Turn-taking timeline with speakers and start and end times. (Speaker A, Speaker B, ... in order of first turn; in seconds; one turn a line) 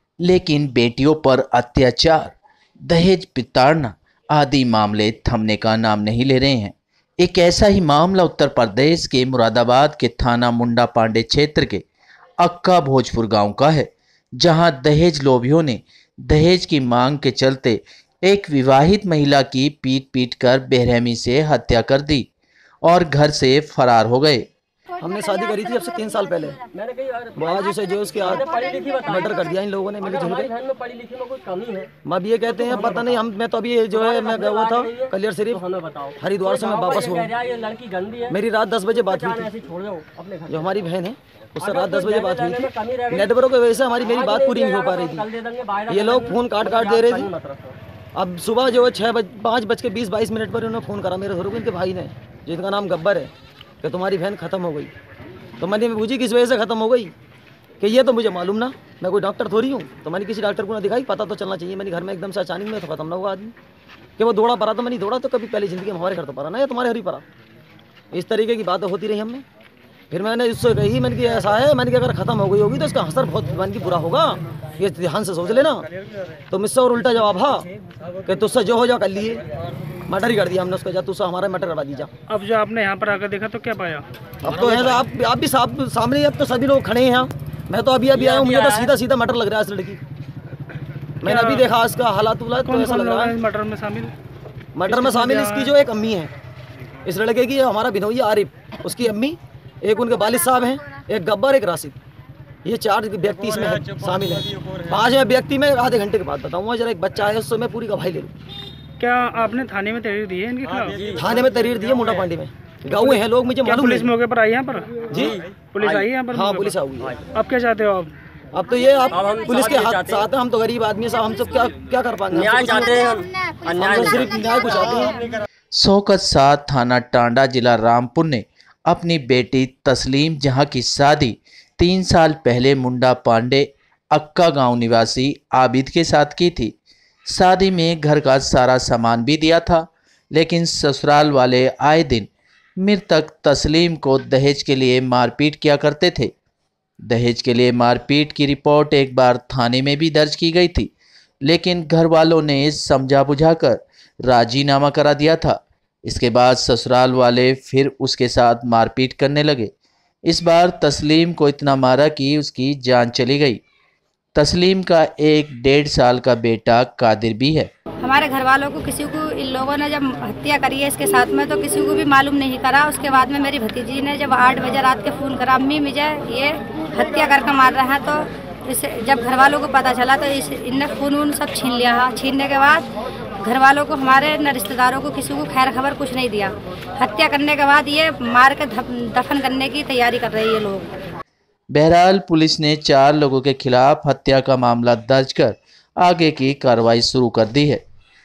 Speaker A: 0.2-2.3
Speaker A: 2.9-11.8
Speaker A: 12.4-22.3
Speaker A: 22.8-24.5
Speaker B: 25.0-26.6
Speaker C: 26.7-29.4
Speaker B: 27.4-30.5
Speaker C: 30.0-31.9
Speaker B: 32.0-35.6
Speaker C: 32.5-33.2
Speaker C: 33.9-38.4
Speaker B: 36.2-37.3
Speaker B: 38.3-39.5
Speaker C: 39.0-40.7
Speaker B: 40.5-45.3
Speaker C: 41.6-43.3
Speaker C: 44.0-47.8
Speaker B: 45.9-47.3
Speaker B: 48.1-54.9
Speaker B: 55.6-57.1
Speaker B: 57.8-63.5
Speaker B: 64.2-67.2
Speaker B: 68.1-69.4
Speaker B: 70.1-75.8
Speaker B: 76.5-77.7
Speaker B: 78.2-79.4
Speaker B: 80.1-82.1
Speaker D: 82.3-84.0
Speaker B: 84.4-90.0
Speaker C: 84.6-84.9
Speaker C: 88.1-88.9
Speaker B: 91.2-93.3
Speaker D: 91.2-91.7
Speaker D: 92.6-94.1
Speaker B: 94.7-96.3
Speaker D: 94.8-95.7
Speaker B: 97.0-102.0
Speaker B: 102.6-108.3
Speaker D: 109.0-111.0
Speaker B: 111.1-114.1
Speaker D: 113.0-115.1
Speaker B: 115.1-115.4
Speaker C: 115.3-116.0
Speaker D: 115.7-118.1
Speaker B: 116.3-117.2
Speaker B: 118.5-123.1
Speaker C: 119.1-120.3
Speaker C: 122.3-124.4
Speaker B: 123.7-125.2
Speaker A: 125.7-136.7
Speaker A: 137.3-142.3
Speaker A: 142.8-146.3
Speaker A: 147.0-150.9
Speaker A: 151.4-159.7
Speaker A: 160.2-163.6
Speaker A: 164.3-167.7
Speaker E: 168.0-190.9
Speaker A: 191.7-197.8